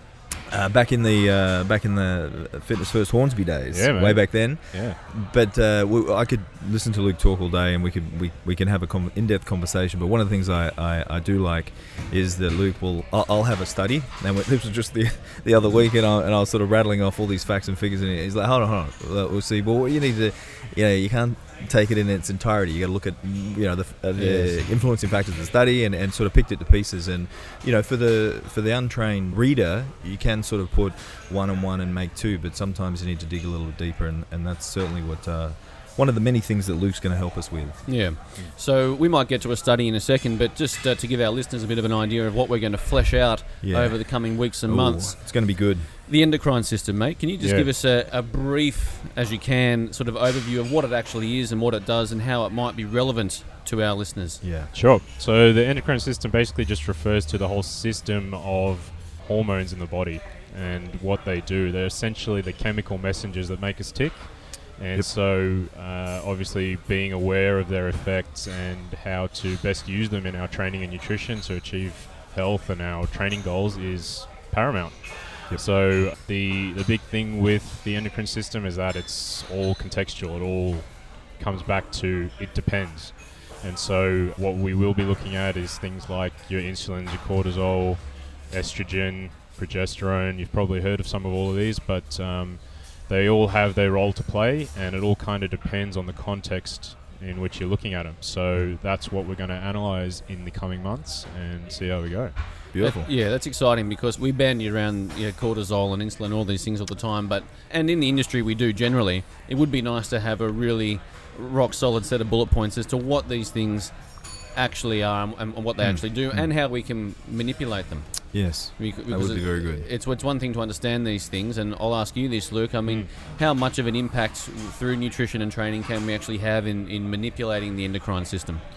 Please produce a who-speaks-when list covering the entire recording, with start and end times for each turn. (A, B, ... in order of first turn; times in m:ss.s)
0:00.4-0:37.9 A
0:03.7-0:05.0 B
0:24.2-0:24.6 C
0:37.9-0:45.5 C
0:43.6-0:45.9 A
0:46.0-0:54.4 C
0:47.4-0:47.7 B
0:54.4-0:54.7 A
0:54.7-1:42.4 B
1:42.7-1:43.1 A
1:42.8-1:54.0 C
1:54.5-2:08.6 C
1:55.8-1:56.5 A
1:58.3-1:59.8 A